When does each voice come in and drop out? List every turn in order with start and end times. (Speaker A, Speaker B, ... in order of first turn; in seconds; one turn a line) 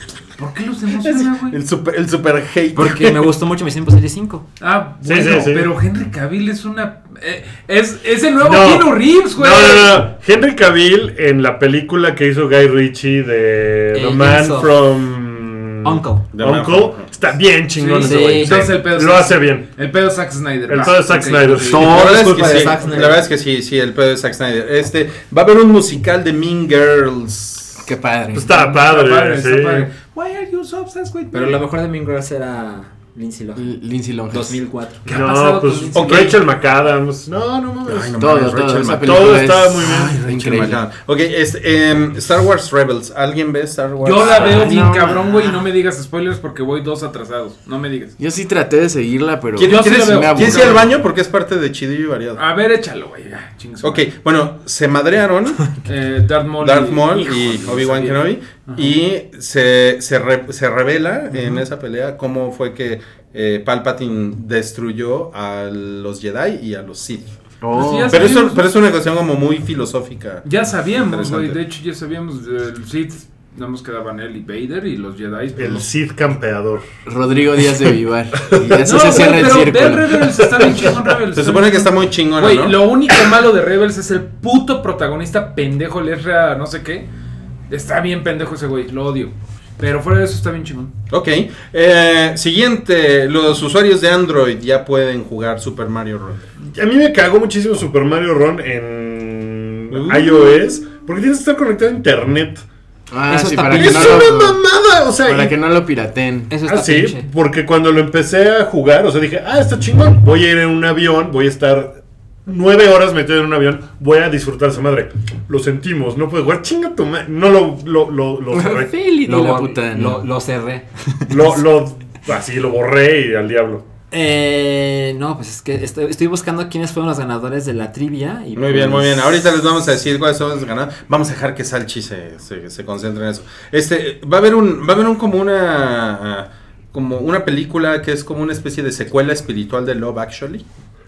Speaker A: 0.4-1.6
Speaker B: 1.0-3.3
Speaker C: 2.8-4.5
Speaker A: 4.6-10.1
Speaker D: 5.0-5.7
Speaker D: 8.4-19.7
Speaker C: 13.9-14.9
Speaker C: 15.8-16.3
Speaker B: 16.4-17.3
Speaker A: 17.8-22.1
Speaker C: 18.0-18.6
Speaker D: 20.7-22.5
Speaker B: 21.7-27.8
Speaker C: 21.7-23.3
Speaker E: 27.8-28.6
Speaker D: 28.3-29.9
Speaker A: 28.5-31.6
Speaker C: 31.3-33.8
Speaker E: 33.6-34.6
Speaker C: 34.3-35.1
Speaker A: 35.0-36.4
Speaker D: 35.1-38.1
Speaker B: 36.0-36.3
Speaker B: 37.8-44.9
Speaker E: 38.2-40.8
Speaker D: 39.0-40.2
Speaker A: 44.0-48.1
Speaker E: 44.3-45.5
Speaker E: 48.2-51.0
Speaker B: 49.6-52.4
Speaker A: 49.6-51.0
Speaker A: 52.4-54.1
Speaker B: 53.8-55.7
Speaker A: 55.9-59.0
Speaker B: 56.6-67.3
Speaker E: 67.6-68.2
Speaker A: 67.7-68.7
Speaker B: 68.1-70.4
Speaker A: 70.4-75.8
Speaker B: 71.0-71.6
Speaker D: 75.6-76.8
Speaker E: 77.1-80.4
Speaker D: 78.5-78.8
Speaker A: 78.8-87.1
Speaker D: 80.6-80.9
Speaker B: 81.3-82.9
Speaker A: 87.7-90.9
Speaker B: 91.1-96.4
Speaker D: 96.8-102.6
Speaker B: 99.9-100.7
Speaker E: 103.1-104.6
Speaker C: 103.3-104.2
Speaker D: 103.8-105.5
Speaker E: 105.2-106.5
Speaker C: 106.5-107.3
Speaker D: 106.7-119.0
Speaker E: 118.5-120.2
Speaker C: 119.2-121.5
Speaker D: 121.3-123.8
Speaker C: 124.1-129.2
Speaker B: 128.6-140.7